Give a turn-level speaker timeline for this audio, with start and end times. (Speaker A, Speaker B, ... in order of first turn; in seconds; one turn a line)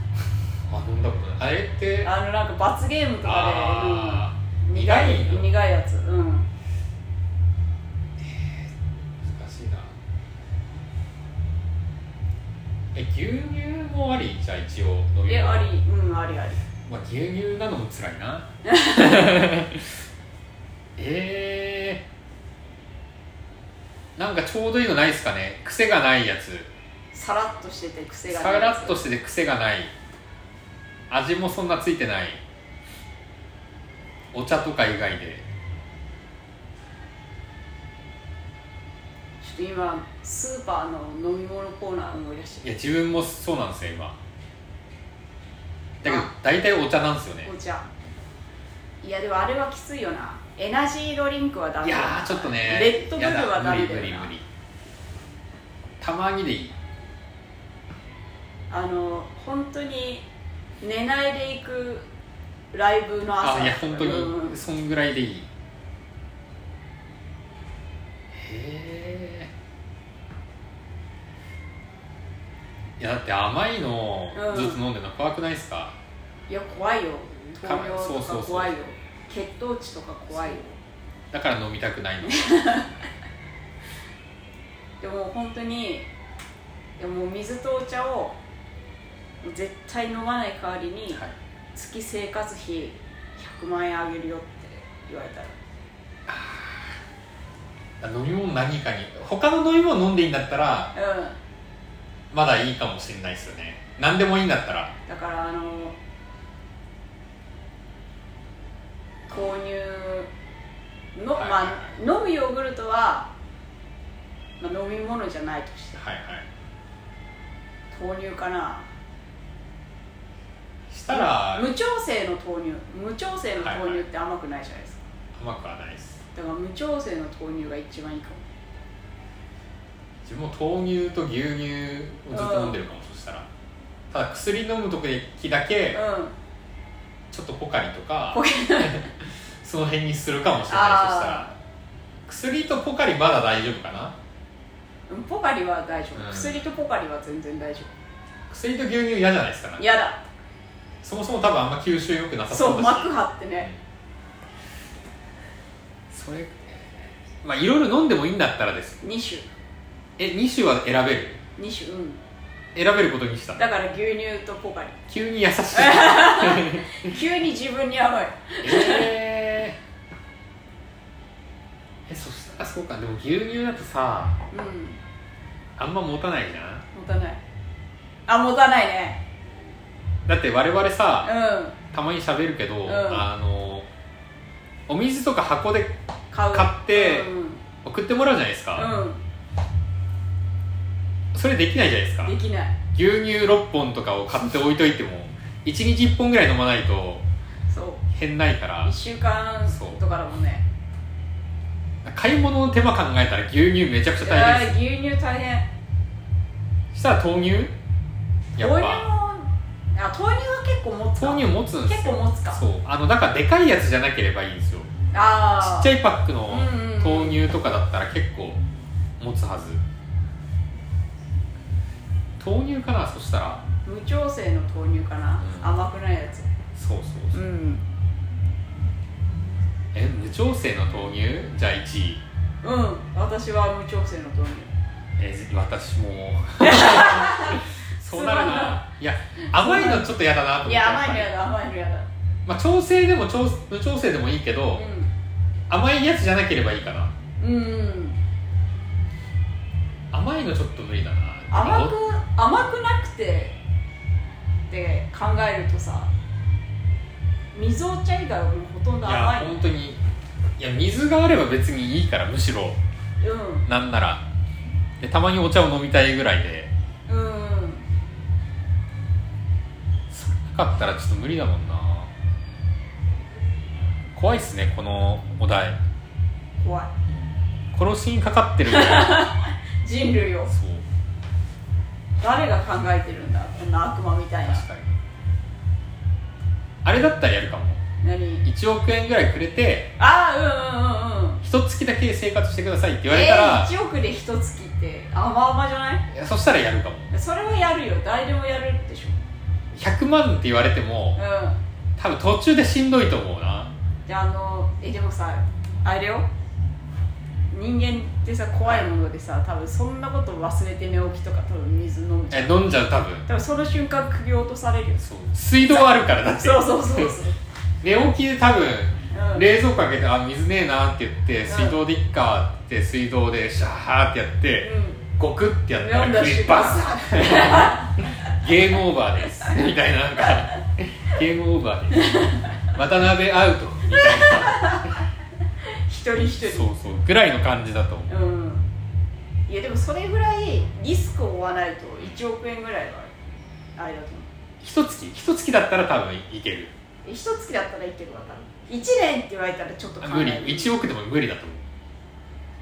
Speaker A: 0.7-2.1
Speaker B: 2.0-6.5
Speaker A: 3.2-5.5
Speaker A: 8.2-9.9
Speaker A: 12.9-15.7
Speaker B: 15.3-16.6
Speaker A: 16.9-19.9
Speaker B: 18.7-19.3
Speaker A: 21.0-22.1
Speaker A: 24.2-26.7
Speaker B: 27.1-29.0
Speaker A: 28.3-29.9
Speaker A: 31.1-32.4
Speaker A: 34.3-35.5
Speaker B: 39.4-42.7
Speaker A: 42.6-44.2
Speaker A: 46.0-47.5
Speaker B: 46.0-46.3
Speaker B: 47.5-47.9
Speaker B: 49.0-54.3
Speaker A: 51.8-54.5
Speaker A: 56.0-56.8
Speaker B: 58.7-60.3
Speaker B: 60.8-62.1
Speaker B: 62.7-64.6
Speaker A: 63.4-65.5
Speaker A: 68.3-69.5
Speaker A: 73.0-76.0
Speaker B: 74.3-74.8
Speaker B: 76.5-80.7
Speaker A: 77.6-78.8
Speaker A: 80.3-80.6
Speaker A: 81.3-82.7
Speaker B: 82.3-82.9
Speaker B: 85.0-86.1
Speaker B: 87.0-88.4
Speaker B: 89.4-91.2
Speaker B: 91.8-95.6
Speaker A: 96.3-97.0
Speaker A: 98.0-100.9
Speaker B: 101.0-101.4
Speaker A: 102.3-104.9
Speaker B: 105.1-106.0
Speaker B: 109.3-110.3
Speaker B: 111.2-113.3
Speaker A: 111.4-111.9
Speaker B: 114.6-116.0
Speaker A: 116.0-116.5
Speaker B: 117.9-118.9
Speaker A: 120.9-121.7
Speaker B: 121.1-125.0
Speaker A: 123.6-124.0
Speaker A: 125.3-126.2
Speaker B: 126.3-128.4
Speaker A: 130.2-133.5
Speaker B: 132.3-132.8
Speaker A: 134.1-136.0
Speaker B: 135.9-136.3
Speaker A: 137.3-141.5
Speaker B: 138.3-139.1
Speaker B: 140.7-141.5
Speaker A: 142.3-144.2
Speaker B: 145.1-147.9
Speaker A: 146.2-146.7
Speaker A: 148.5-149.8
Speaker B: 149.8-150.2
Speaker A: 151.0-153.1
Speaker B: 152.5-153.7
Speaker A: 156.1-159.0
Speaker B: 159.0-159.5
Speaker A: 160.2-161.4
Speaker B: 161.6-162.2
Speaker A: 162.8-163.6
Speaker B: 163.6-165.0
Speaker A: 165.1-167.1
Speaker B: 165.7-169.1
Speaker A: 168.6-169.8
Speaker A: 172.1-174.4
Speaker B: 174.5-175.0
Speaker A: 175.8-176.8
Speaker B: 176.9-177.4
Speaker B: 178.3-179.2
Speaker A: 180.3-181.3
Speaker B: 181.2-181.8
Speaker A: 181.9-183.9
Speaker B: 182.9-183.3
Speaker A: 184.9-187.3
Speaker B: 186.3-187.6
Speaker A: 187.8-188.9
Speaker B: 188.8-189.2
Speaker A: 191.3-192.3
Speaker B: 192.3-192.8
Speaker A: 192.9-197.2
Speaker B: 197.7-198.0
Speaker A: 198.1-198.9
Speaker B: 198.8-200.7
Speaker A: 199.7-200.0
Speaker A: 202.0-204.8
Speaker B: 204.2-205.7
Speaker A: 206.9-207.8
Speaker A: 208.6-209.1
Speaker B: 208.6-212.6
Speaker A: 211.2-214.9
Speaker B: 215.1-215.9
Speaker A: 215.6-218.6
Speaker B: 216.5-217.4
Speaker A: 219.2-219.8
Speaker A: 222.4-223.6
Speaker B: 223.8-226.5
Speaker A: 225.4-225.8
Speaker A: 226.8-227.4
Speaker B: 227.3-227.8
Speaker A: 229.9-232.2
Speaker B: 232.6-234.7
Speaker A: 235.2-241.3
Speaker B: 236.6-238.8
Speaker B: 239.4-242.1
Speaker A: 242.5-244.9
Speaker B: 244.7-245.1
Speaker A: 245.7-247.1
Speaker B: 247.4-248.2
Speaker A: 250.1-251.9
Speaker B: 251.5-253.6
Speaker B: 254.7-256.1
Speaker B: 257.5-259.6
Speaker A: 259.0-260.0
Speaker A: 260.6-262.8
Speaker B: 263.2-263.7
Speaker A: 263.7-264.2
Speaker A: 265.0-266.7
Speaker B: 267.1-267.9
Speaker A: 270.1-272.1
Speaker A: 274.1-275.8
Speaker B: 276.6-276.9
Speaker A: 277.7-279.3
Speaker B: 278.7-280.5
Speaker A: 280.5-280.9
Speaker B: 282.2-284.6
Speaker A: 284.4-285.0
Speaker A: 286.8-287.8
Speaker B: 288.0-288.5
Speaker A: 288.4-289.9
Speaker B: 290.0-291.4
Speaker A: 291.4-293.7
Speaker B: 293.1-296.1
Speaker A: 296.1-297.1
Speaker B: 297.1-299.2
Speaker A: 299.7-301.2
Speaker B: 301.2-301.6
Speaker A: 302.0-303.7
Speaker B: 304.1-306.3
Speaker B: 307.5-312.6
Speaker A: 312.3-313.3
Speaker B: 313.3-315.0
Speaker A: 315.0-317.2
Speaker B: 315.7-317.4
Speaker A: 317.8-332.1
Speaker B: 319.1-319.5
Speaker B: 321.4-321.8
Speaker B: 324.6-325.0
Speaker B: 325.8-327.9
Speaker B: 332.0-332.4
Speaker A: 332.7-334.9
Speaker B: 333.9-334.9
Speaker B: 335.8-336.7
Speaker A: 336.4-338.1
Speaker B: 338.1-338.7
Speaker B: 339.5-343.1
Speaker B: 343.8-344.3
Speaker A: 344.6-346.7
Speaker B: 347.1-350.8
Speaker A: 350.0-351.6